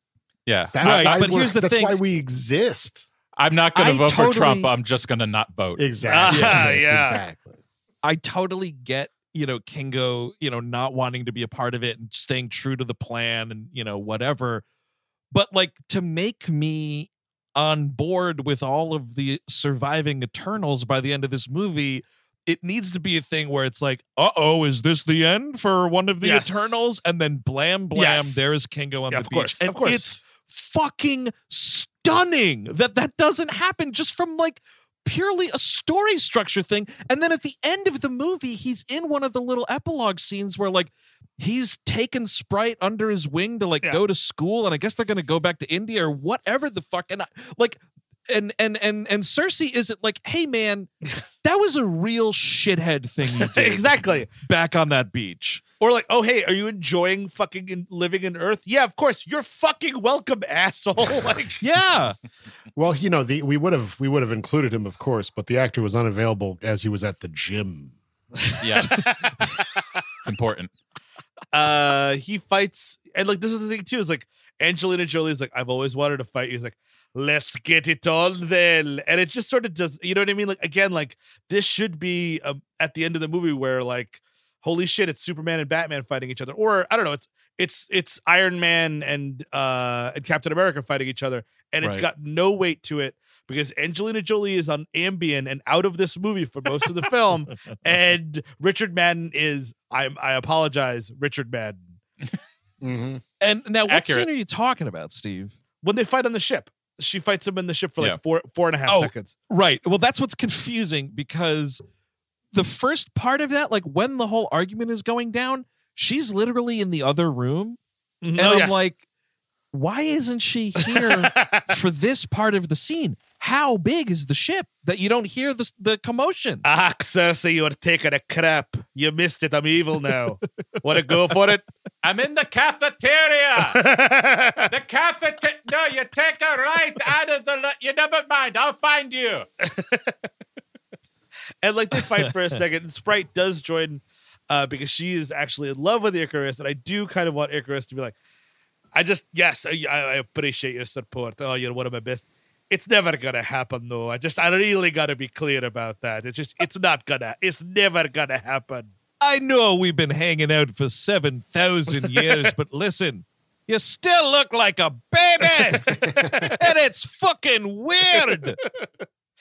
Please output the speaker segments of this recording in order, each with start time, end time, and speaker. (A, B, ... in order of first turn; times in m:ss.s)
0:00.4-0:01.3 A
0:00.7-0:03.1 B
0:00.8-0:02.0 C
0:03.4-0:05.8 A
0:03.7-0:04.7 C
0:05.8-0:07.6 B
0:06.0-0:07.2 D
0:06.3-0:06.6 C
0:08.0-0:14.6 C
0:15.3-0:50.9 C
0:26.2-0:26.5 D
0:27.9-0:28.4 D
0:29.1-0:30.1 D
0:51.4-0:55.6 C
0:53.4-0:54.3 D
0:55.8-1:01.6 D
1:01.6-1:02.2 C
1:02.8-1:07.9 B
1:08.4-1:09.5 D
1:08.6-1:09.1 A
1:10.2-1:10.7 A
1:11.5-1:42.0 D
1:31.8-1:32.1 C
1:42.8-1:43.2 B
1:43.4-1:45.6 C
1:43.9-1:44.3 A
1:45.8-1:49.3 D
1:48.8-1:51.8 C
1:52.5-1:57.8 C
1:58.2-1:58.8 D
1:58.3-1:59.0 C
1:59.7-2:06.6 C
2:00.8-2:01.7 D
2:06.6-2:11.6 D
2:12.0-2:13.8 A
2:13.7-2:14.7 D
2:14.7-2:19.4 A
2:19.6-2:20.2 D
2:21.6-2:28.2 D
2:28.9-2:38.9 D
2:39.2-2:48.6 C
2:42.0-2:42.3 D
2:45.4-2:46.7 D
2:48.2-2:48.9 D